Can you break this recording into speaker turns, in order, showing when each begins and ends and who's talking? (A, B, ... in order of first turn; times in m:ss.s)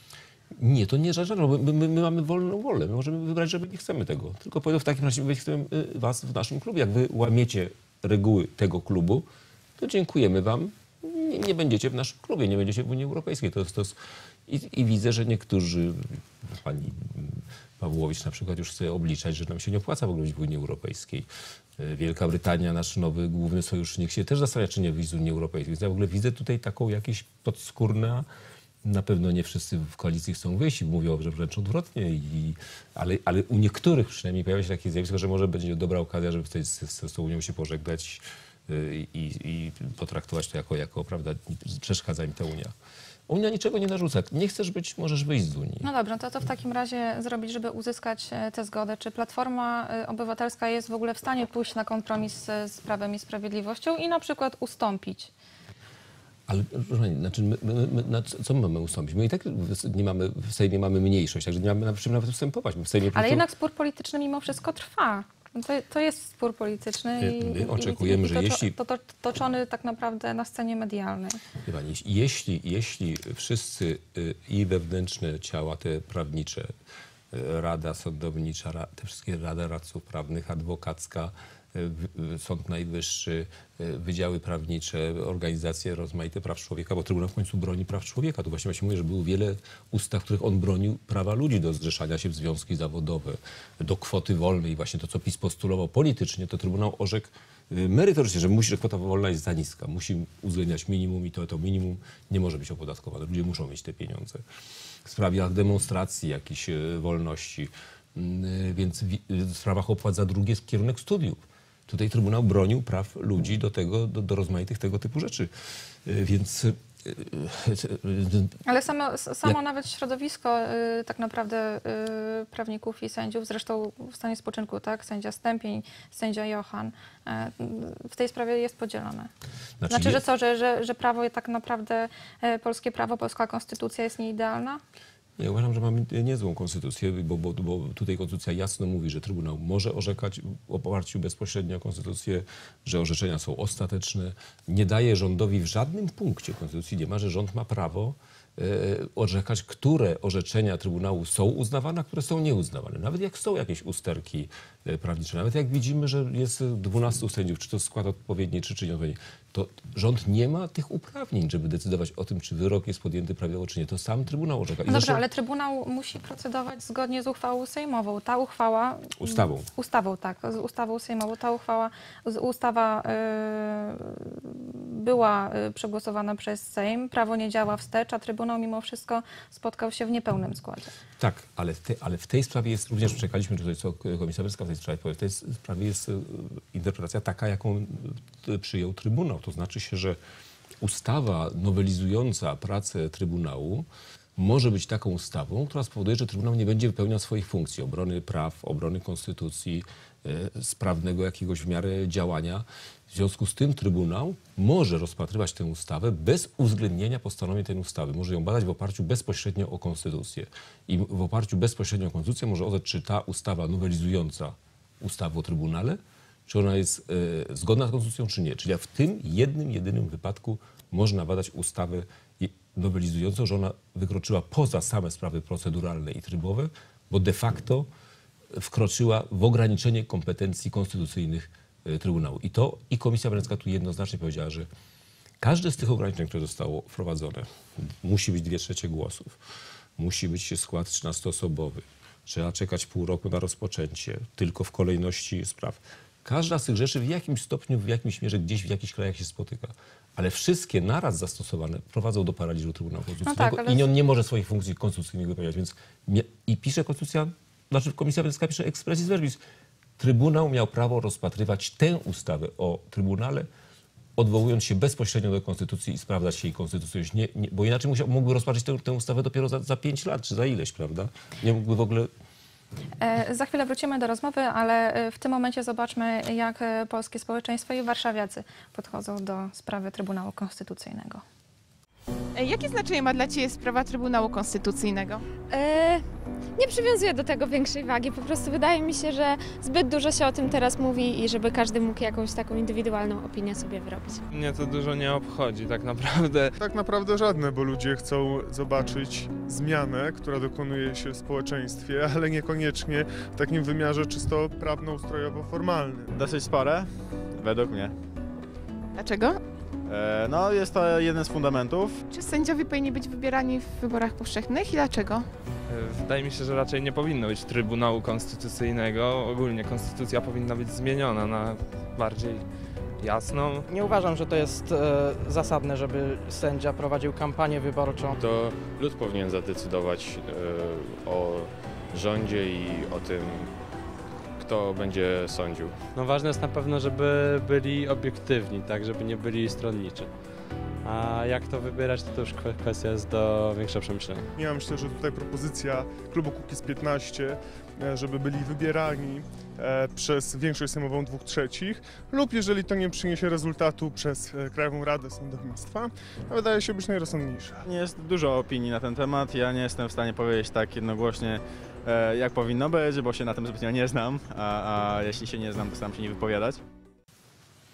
0:00.5-0:09.3 A
0:09.8-0:28.3 A
0:28.8-0:42.7 A
0:43.3-0:45.9 A
0:45.8-0:55.3 B
0:56.5-1:03.4 A
1:03.1-1:11.4 B
1:07.2-1:08.7 A
1:11.6-1:16.7 A
1:17.3-1:44.4 A
1:45.0-1:55.5 A
1:56.0-1:58.5 A
1:58.6-2:09.3 B
2:09.8-2:10.2 A
2:09.9-2:14.8 B
2:15.4-2:45.2 A
2:44.9-3:00.9 B
2:49.2-2:49.7 A
3:01.2-3:10.2 A
3:10.8-3:47.9 A
3:48.5-3:54.7 A
3:55.4-3:59.4 A
4:00.0-4:19.4 A
4:13.2-4:13.9 B
4:20.0-4:23.5 A
4:24.2-4:32.1 A
4:33.0-4:41.2 B
4:42.3-4:45.2 C
4:45.5-4:46.0 D
4:46.6-4:54.2 D
4:54.3-4:56.6 E
4:56.6-5:06.1 F
5:06.1-5:07.9 G
5:08.9-5:09.4 C
5:09.8-5:12.0 G
5:12.1-5:15.3 C
5:15.7-5:22.4 E
5:23.0-5:23.6 E
5:23.7-5:28.2 H
5:28.2-5:33.6 I
5:34.4-5:35.8 I
5:35.9-5:40.1 J
5:40.8-5:44.3 J
5:44.3-5:57.6 F
5:57.6-6:06.6 G